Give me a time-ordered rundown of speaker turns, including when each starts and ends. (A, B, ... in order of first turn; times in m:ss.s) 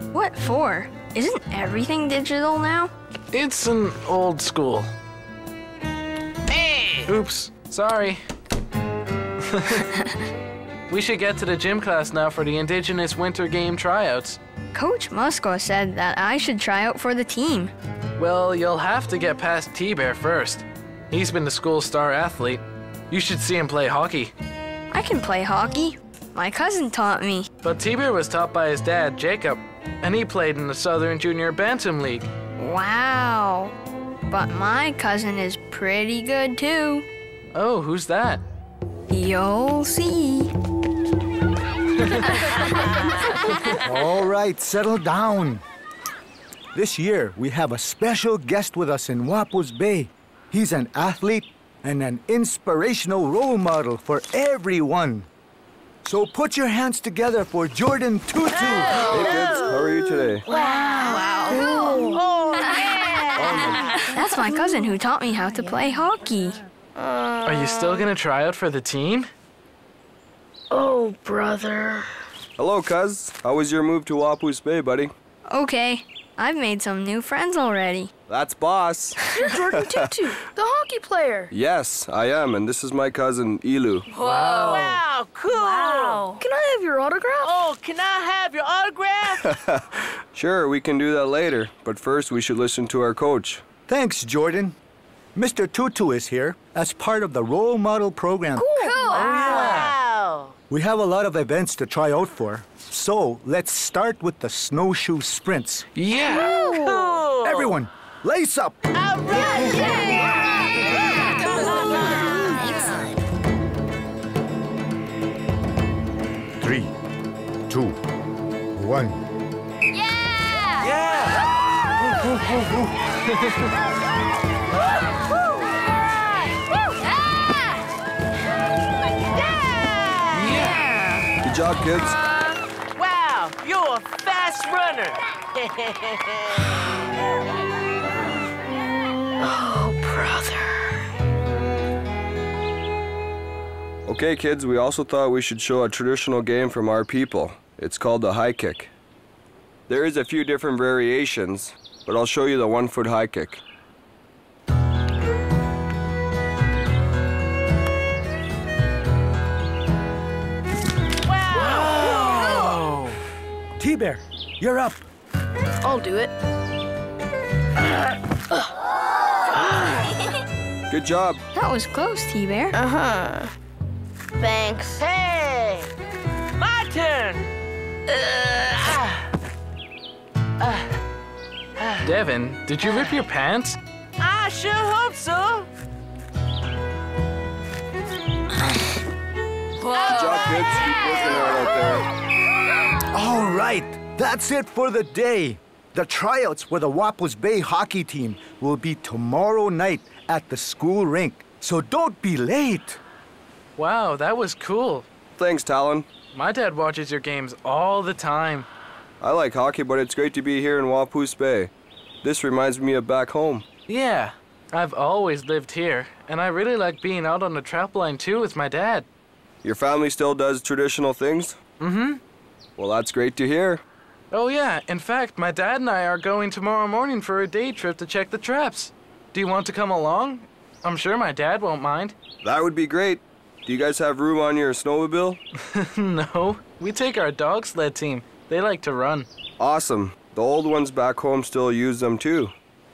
0:00.1-0:02.9 A
0:03.3-0:04.9 B
0:06.5-0:07.1 C
0:07.1-0:08.2 B
0:09.5-0:09.8 B
0:10.9-0:14.4 B
0:14.7-0:17.7 A
0:18.2-0:24.3 B
0:24.9-0:27.5 A
0:27.6-0:32.3 B
0:32.6-0:33.7 A
0:34.3-0:37.1 A
0:37.5-0:38.4 B
0:39.1-0:40.5 A
0:42.1-0:42.4 B
0:42.5-0:43.2 A
0:43.7-0:45.6 D
0:46.7-0:55.3 D
0:56.0-0:59.2 D
0:58.5-1:04.1 C
0:59.1-1:00.4 E
0:59.2-0:59.7 F
1:00.5-1:02.2 F
1:00.5-1:06.6 A
1:03.4-1:03.8 D
1:07.4-1:09.3 B
1:10.7-1:12.1 F
1:12.6-1:15.1 E
1:15.5-1:18.1 A
1:18.3-1:19.2 E
1:19.2-1:19.5 A
1:19.4-1:21.5 F
1:21.5-1:24.1 E
1:24.1-1:24.9 A
1:24.2-1:25.0 B
1:24.2-1:26.4 C
1:25.5-1:26.4 A
1:26.4-1:27.5 F
1:27.4-1:29.4 C
1:29.4-1:33.6 E
1:33.9-1:34.8 D
1:35.4-1:38.7 D
1:38.6-1:39.5 F
1:38.8-1:39.6 A
1:39.0-1:40.5 C
1:39.1-1:39.9 B
1:40.7-1:45.9 D
1:46.0-1:46.5 B
1:46.2-1:47.7 C
1:46.3-1:47.1 F
1:47.4-1:48.8 D
1:49.0-1:52.9 C
1:56.6-1:57.0 D
1:57.7-1:58.0 D
1:58.8-1:59.2 D
1:59.9-2:00.9 A
2:00.8-2:01.2 C
2:03.3-2:03.7 B
2:05.1-2:06.4 C
2:09.3-2:10.5 C
2:10.4-2:10.8 B
2:10.5-2:11.3 A
2:11.4-2:12.2 E
2:13.0-2:16.6 C
2:19.4-2:21.0 F
2:24.1-2:28.9 E
2:29.9-2:33.6 E
2:41.3-2:42.8 C
2:41.5-2:43.1 B
2:43.8-2:45.1 D
2:45.8-2:46.3 F
2:50.9-2:51.4 E
2:51.6-2:52.8 A
2:52.8-2:53.5 F
2:54.4-2:55.0 F
2:55.0-2:55.9 C
2:56.6-2:57.5 C
2:58.1-2:59.2 C
3:00.6-3:00.9 C
3:02.0-3:03.8 B
3:04.2-3:05.7 C
3:09.8-3:12.0 C
3:10.0-3:12.1 E
3:13.1-3:23.0 D
3:23.8-3:25.1 B
3:25.4-3:26.1 E
3:26.3-3:28.7 B
3:29.2-3:31.7 E
3:32.2-3:33.6 E
3:33.9-3:39.1 B
3:39.6-3:41.6 E
3:41.8-3:42.2 B
3:42.8-3:43.8 E
3:44.3-3:52.2 B
3:52.4-3:55.4 E
3:55.6-3:59.3 B
3:59.6-4:02.5 E